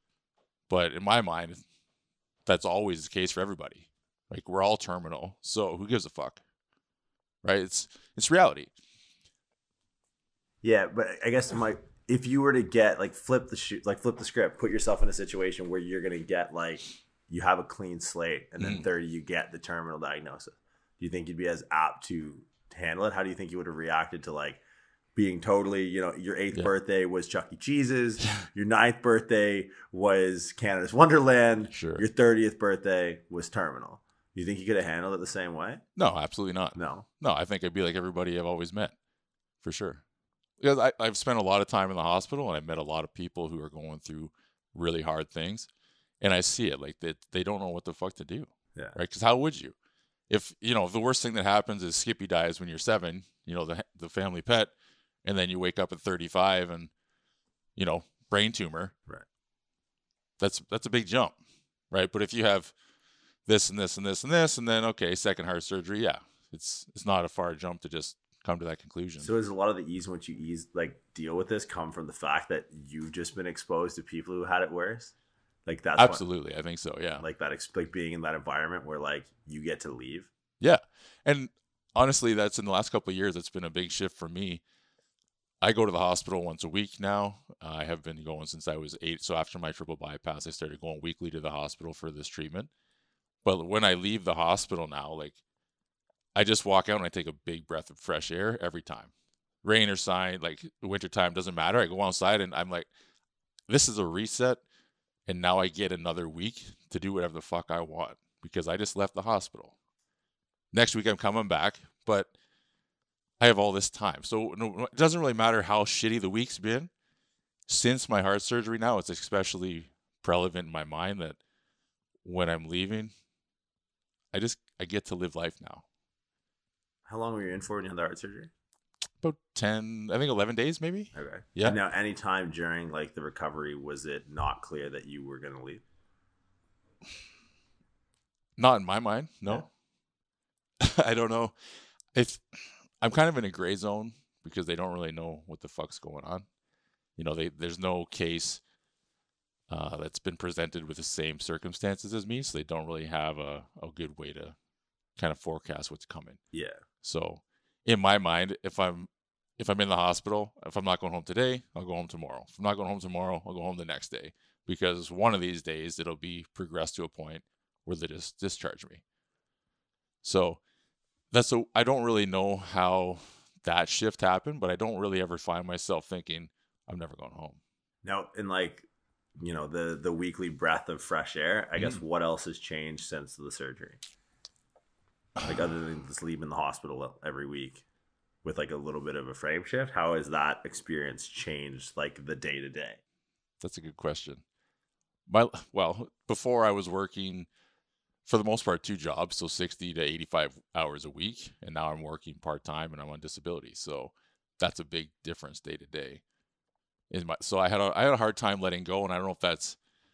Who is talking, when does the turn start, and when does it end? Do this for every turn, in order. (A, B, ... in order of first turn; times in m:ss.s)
0:00.7-0:01.6 A
0:02.4-0:06.4 A
0:07.4-0:08.7 A
0:10.6-0:24.6 B
0:18.6-0:18.8 A
0:25.1-0:35.8 B
0:31.7-0:32.0 A
0:36.0-0:38.9 A
0:36.7-0:37.0 B
0:39.6-0:40.0 A
0:40.6-0:45.7 A
0:46.2-0:49.7 A
0:50.3-0:54.7 A
0:55.2-0:56.9 A
0:57.8-0:58.9 A
1:00.4-1:01.3 A
1:01.9-1:02.7 A
1:03.4-1:09.3 A
1:09.2-1:15.1 B
1:15.6-1:16.2 B
1:16.0-1:17.2 A
1:17.2-1:20.3 B
1:20.6-1:24.6 A
1:25.6-1:32.7 A
1:33.4-1:35.4 A
1:36.3-1:39.1 A
1:39.6-1:42.9 A
1:43.7-1:44.6 A
1:45.2-1:49.7 A
1:50.7-1:52.3 A
1:53.4-1:56.9 A
1:57.7-2:01.4 A
2:02.2-2:03.1 A
2:04.3-2:05.8 A
2:07.0-2:08.5 B
2:09.2-2:11.8 A
2:11.1-2:15.8 B
2:18.6-2:19.7 A
2:20.8-2:21.5 A
2:22.1-2:26.4 A
2:27.2-2:28.6 A
2:29.7-2:34.5 A
2:35.2-2:36.4 A
2:36.5-2:36.8 B
2:37.0-2:49.0 A
2:50.2-2:50.6 A
2:51.3-2:57.6 A
2:58.0-2:58.9 B
2:59.4-3:04.0 B
3:05.4-3:07.8 B
3:08.4-3:13.0 B
3:13.6-3:14.4 A
3:15.3-3:17.5 A
3:18.2-3:26.2 A
3:27.1-3:29.8 A